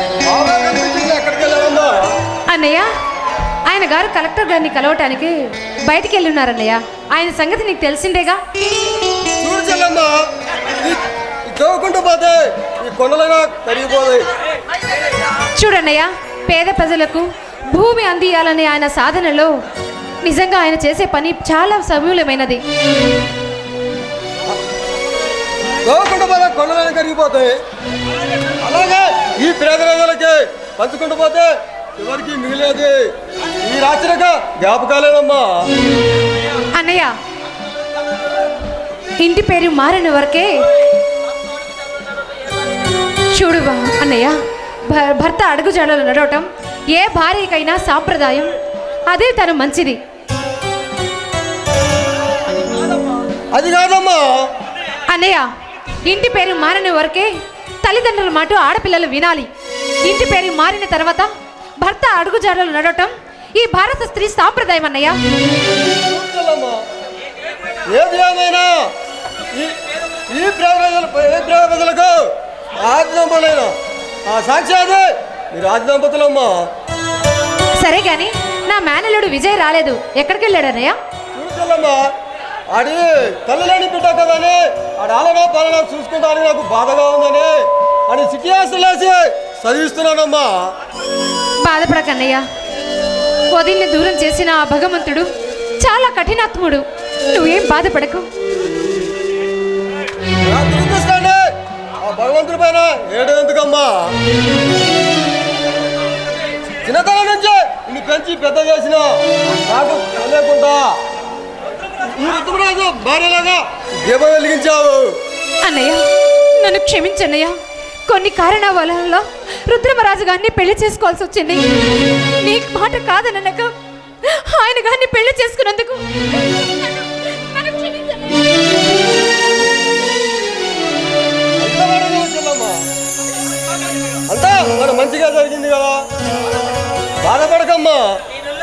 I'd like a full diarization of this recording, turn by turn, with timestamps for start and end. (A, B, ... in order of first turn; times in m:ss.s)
0:00.2-0:02.1 A
0:02.5-0:02.9 B
0:03.6-0:08.4 B
0:09.4-0:14.3 A
0:15.5-0:19.5 B
0:20.2-0:22.6 B
0:25.8-0:27.6 A
0:28.6-0:33.1 A
0:33.6-0:35.5 A
0:36.7-0:37.1 B
0:39.2-0:40.7 B
0:43.3-0:48.5 B
0:49.1-0:50.0 B
0:53.5-0:54.5 A
0:55.1-0:55.5 B
0:56.0-0:57.3 B
0:57.8-0:59.5 B
1:00.0-1:05.2 B
1:05.8-1:06.8 A
1:07.9-1:08.9 A
1:09.5-1:09.8 A
1:10.3-1:13.7 A
1:14.2-1:16.6 A
1:17.8-1:21.0 B
1:21.3-1:22.1 A
1:22.7-1:30.6 A
1:31.6-1:32.4 B
1:33.5-1:38.3 B
1:40.4-1:44.1 A
1:46.8-1:50.9 A
1:52.0-1:55.1 A
1:55.6-1:57.6 B
1:58.1-2:03.7 B
2:04.2-2:08.4 B
2:11.6-2:12.8 A
2:14.3-2:16.0 A
2:17.2-2:18.2 A